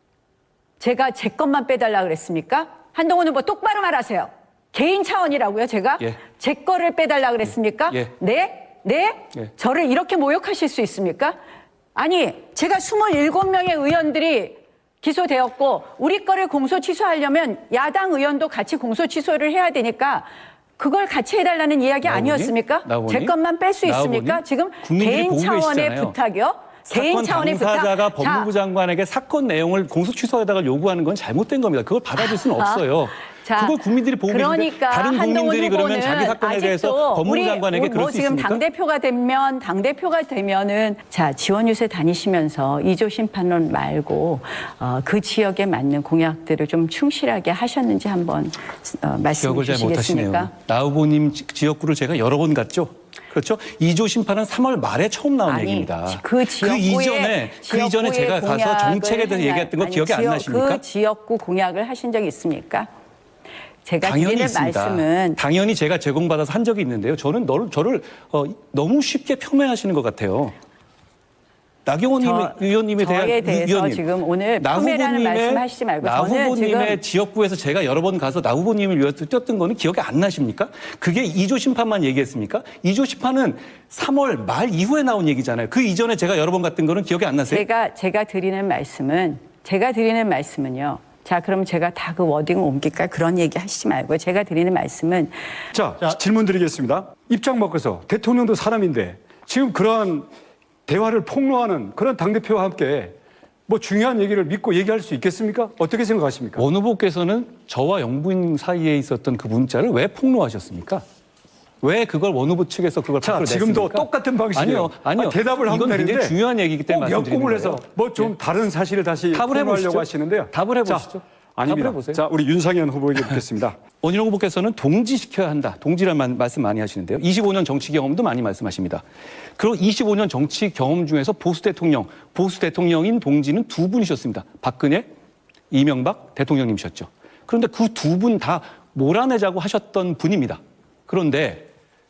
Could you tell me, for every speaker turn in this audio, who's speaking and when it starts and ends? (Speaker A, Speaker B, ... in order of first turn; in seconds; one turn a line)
Speaker A: 0.8-11.3
Speaker A: 11.9-20.3
Speaker A: 20.8-28.5
Speaker B: 22.0-26.1
Speaker B: 26.9-38.6
Speaker A: 32.2-50.5
Speaker B: 49.4-60.8
Speaker A: 55.4-62.9
Speaker A: 63.9-65.4
Speaker B: 64.0-70.5
Speaker B: 71.8-74.0
Speaker A: 72.2-77.0
Speaker B: 74.6-87.6
Speaker A: 87.5-95.4
Speaker C: 95.7-100.3
Speaker C: 100.9-103.1
Speaker C: 103.7-106.6
Speaker B: 106.6-111.0
Speaker B: 111.8-118.3
Speaker C: 113.2-116.4
Speaker C: 116.9-123.8
Speaker B: 119.3-122.2
Speaker B: 124.0-129.0
Speaker B: 129.6-135.1
Speaker B: 135.7-141.7